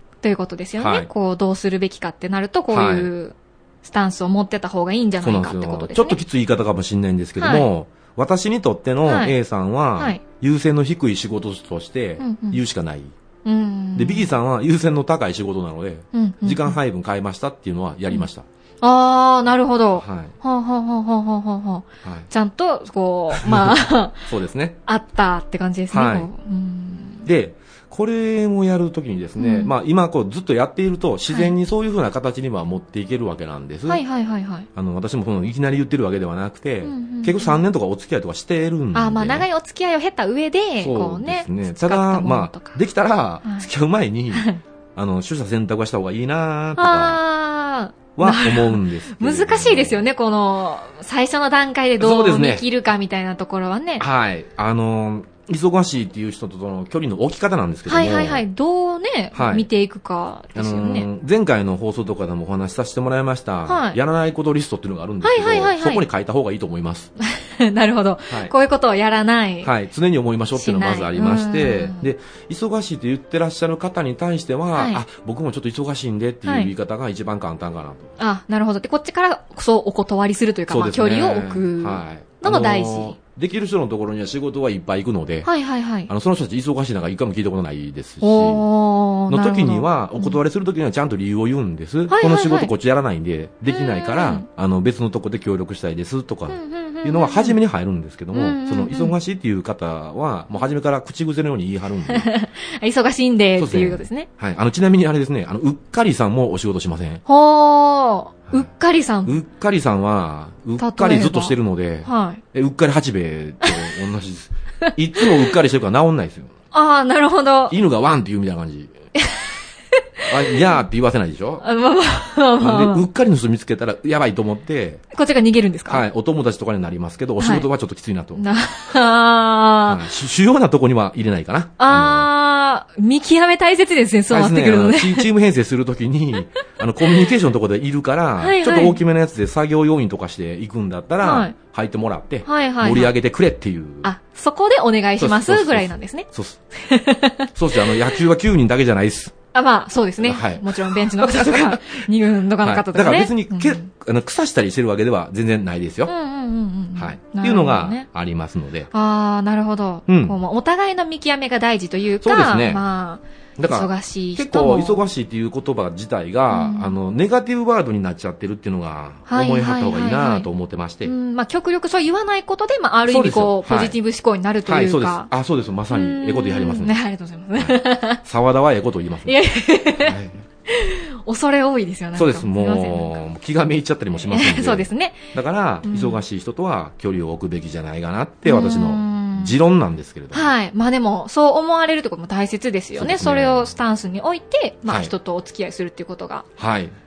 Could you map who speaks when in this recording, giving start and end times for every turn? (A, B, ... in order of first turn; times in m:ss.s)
0:00.2-0:06.2 A
0:00.8-0:01.1 B
0:02.7-0:03.1 B
0:05.2-0:13.1 B
0:07.4-0:07.7 A
0:09.0-0:09.3 A
0:12.2-0:12.6 A
0:13.4-0:14.3 A
0:14.0-0:18.5 B
0:16.1-0:16.8 A
0:18.8-0:24.3 A
0:20.0-0:20.4 B
0:22.0-0:22.3 B
0:23.3-0:24.8 B
0:24.9-0:27.3 A
0:25.9-0:26.3 B
0:27.2-0:34.0 B
0:29.4-0:29.7 A
0:33.9-0:34.7 A
0:34.8-0:39.5 B
0:36.8-0:37.6 A
0:38.9-0:42.8 A
0:40.8-0:47.2 B
0:44.3-0:44.6 A
0:46.8-0:54.1 A
0:48.2-0:50.1 B
0:52.0-0:52.7 B
0:54.0-0:58.4 B
0:57.9-1:01.1 A
0:59.3-0:59.7 B
1:00.6-1:07.1 B
1:03.7-1:04.0 A
1:05.2-1:06.0 A
1:07.2-1:09.7 A
1:09.6-1:18.1 B
1:10.6-1:12.0 A
1:14.8-1:15.0 A
1:16.4-1:16.7 A
1:18.2-1:23.2 A
1:20.7-1:25.5 B
1:25.4-1:26.1 A
1:26.1-1:28.6 B
1:28.2-1:30.4 A
1:29.3-1:42.3 B
1:32.1-1:32.7 A
1:33.7-1:34.5 A
1:36.5-1:37.6 A
1:38.3-1:39.2 A
1:42.1-1:44.3 A
1:43.6-1:47.2 B
1:47.3-1:49.3 A
1:49.2-1:56.5 B
1:50.8-1:52.4 A
1:53.6-1:53.9 A
1:54.8-1:55.5 A
1:56.7-1:57.8 A
1:57.7-1:59.0 B
1:59.2-1:59.5 A
2:00.2-2:00.5 A
2:00.3-2:01.6 B
2:01.6-2:03.0 A
2:02.6-2:05.0 B
2:05.1-2:06.0 A
2:05.9-2:08.4 B
2:07.4-2:07.7 A
2:08.4-2:10.0 A
2:09.9-2:12.3 B
2:11.8-2:15.3 A
2:14.3-2:24.1 B
2:18.4-2:19.0 A
2:21.2-2:21.6 A
2:22.4-2:23.1 A
2:24.0-2:28.2 A
2:25.2-2:26.6 B
2:27.6-2:29.3 B
2:29.5-2:33.9 A
2:30.2-2:32.0 B
2:32.6-2:36.1 B
2:36.1-2:38.1 A
2:37.0-2:38.9 B
2:38.9-2:45.0 A
2:40.1-2:40.4 B
2:42.2-2:42.8 B
2:43.6-2:51.1 B
2:46.5-2:47.0 A
2:49.3-2:50.5 A
2:51.0-2:55.3 A
2:53.1-2:54.0 B
2:54.7-2:57.0 B
2:55.9-2:58.2 A
2:57.6-2:59.4 B
2:59.3-3:03.2 A
3:00.0-3:00.4 B
3:02.2-3:10.5 B
3:04.1-3:05.3 A
3:05.8-3:06.2 A
3:08.4-3:09.6 A
3:10.3-3:16.5 A
3:13.0-3:13.7 B
3:14.9-3:15.1 B
3:16.6-3:17.0 B